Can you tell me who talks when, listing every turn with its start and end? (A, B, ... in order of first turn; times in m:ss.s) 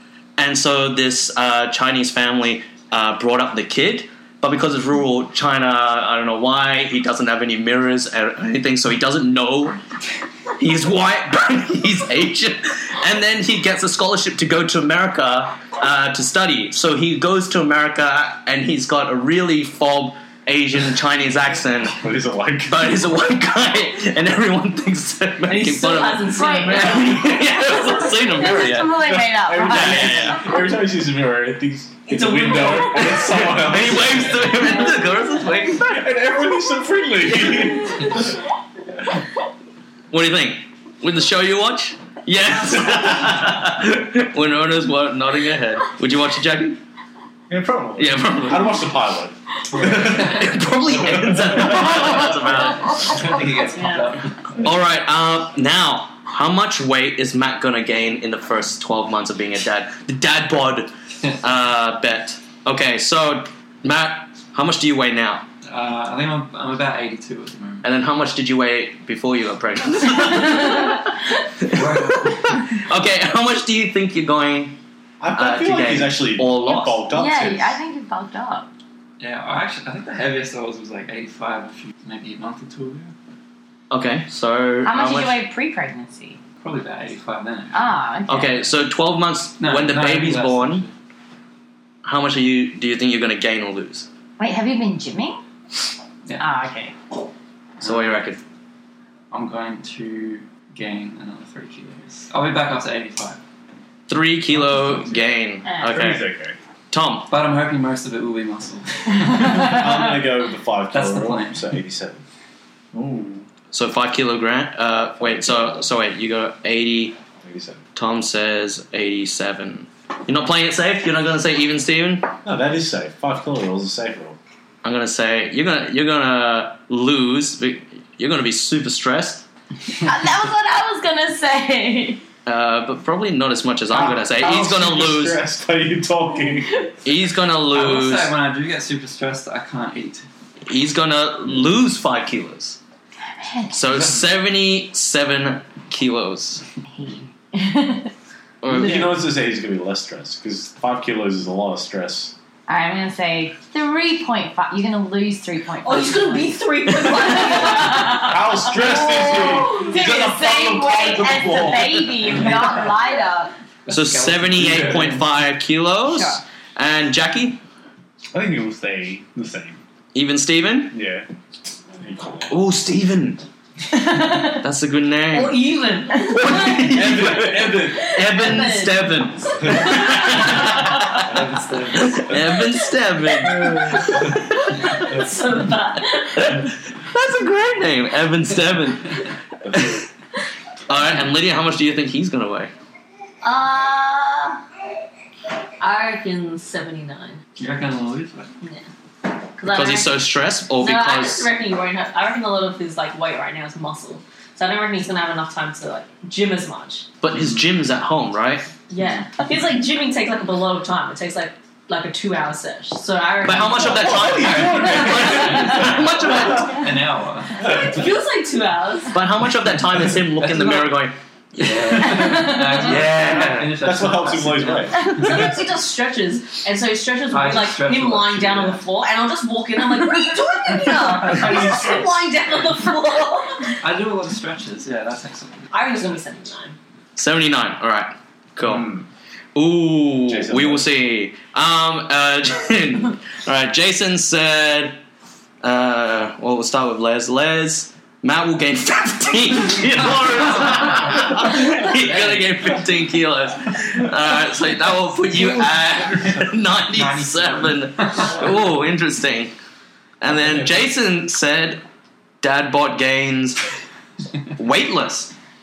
0:00.4-0:09.8 A
0:10.6-0:22.0 A
0:21.9-0:23.0 B
0:22.7-0:29.0 A
0:25.5-0:27.3 C
0:26.3-0:27.2 D
0:27.8-0:30.4 D
0:29.0-0:34.8 B
0:29.7-0:30.4 A
0:32.1-0:33.2 C
0:33.0-0:36.0 A
0:35.8-0:38.3 B
0:40.1-0:46.8 A
0:47.5-0:48.3 E
0:48.0-0:48.9 A
0:48.4-0:52.7 B
0:49.7-0:50.6 F
0:49.7-0:53.2 A
0:52.8-0:54.7 F
0:53.8-0:54.1 C
0:54.6-1:05.5 A
1:05.6-1:07.9 F
1:07.8-1:14.8 A
1:11.7-1:12.6 F
1:15.2-1:17.8 B
1:15.3-1:17.0 A
1:17.1-1:18.7 D
1:19.2-1:23.1 F
1:23.9-1:25.4 A
1:24.8-1:26.4 D
1:26.6-1:28.0 F
1:27.7-1:28.7 D
1:28.3-1:30.8 A
1:29.6-1:30.9 F
1:32.0-1:34.1 A
1:34.4-1:35.4 D
1:36.4-1:36.9 D
1:37.8-1:38.2 F
1:37.8-1:38.4 A
1:39.3-1:43.4 F
1:44.1-1:46.3 A
1:44.5-1:45.2 F
1:45.9-1:46.6 E
1:46.9-1:47.3 A
1:47.3-1:50.1 F
1:49.5-1:52.2 B
1:50.9-1:51.7 F
1:52.9-1:53.4 E
1:53.7-1:57.2 A
1:55.2-1:55.9 B
1:57.4-1:57.8 B
1:58.0-2:02.3 A
2:02.4-2:04.4 B
2:04.8-2:09.5 A
2:10.0-2:12.2 D
2:12.4-2:15.4 A
2:13.9-2:16.8 B
2:17.0-2:18.4 A
2:17.7-2:20.3 F
2:20.7-2:22.8 A
2:23.4-2:23.8 D
2:23.7-2:26.6 A
2:27.0-2:28.1 D
2:28.6-2:29.2 A
2:28.6-2:32.3 B
2:32.7-2:36.6 D
2:35.8-2:38.4 C
2:37.2-2:43.5 D
2:38.0-2:42.3 B
2:39.2-2:40.0 C
2:42.3-2:42.7 F
2:43.9-2:45.3 F
2:43.9-2:47.6 A
2:46.1-2:46.4 D
2:48.3-2:49.8 E
2:50.1-2:51.0 A
2:50.9-2:51.3 E
2:52.0-2:52.5 B
2:52.5-2:53.4 A
2:54.0-2:54.6 D
2:54.4-2:55.6 A
2:55.3-3:00.3 C
2:56.3-3:01.3 A
2:56.8-2:58.2 B
3:00.6-3:02.5 F
3:02.0-3:04.4 A
3:04.6-3:06.6 C
3:06.4-3:09.2 A
3:10.9-3:12.7 A
3:13.4-3:14.6 C
3:15.8-3:17.4 C
3:17.6-3:18.5 F
3:18.6-3:18.9 C
3:19.6-3:20.2 C
3:19.7-3:21.5 A
3:20.8-3:27.1 C
3:27.2-3:28.7 A
3:28.9-3:34.1 C
3:33.4-3:36.9 A
3:33.8-3:36.7 B
3:34.0-3:38.1 F
3:37.6-3:39.2 C
3:39.1-3:43.8 A
3:40.3-3:41.0 F
3:41.6-3:45.2 F
3:43.8-3:45.4 B
3:45.0-3:53.8 C
3:47.3-3:48.8 F
3:51.5-3:52.0 B
3:53.8-3:55.7 F
3:55.7-3:56.8 C
3:57.2-3:58.9 A
3:58.6-3:59.1 E
3:59.6-4:05.0 A
4:00.2-4:00.9 B
4:05.6-4:19.5 A
4:10.4-4:11.0 F
4:11.8-4:12.6 F
4:16.9-4:18.5 F
4:20.2-4:21.8 A
4:22.4-4:23.6 A
4:24.6-4:25.3 A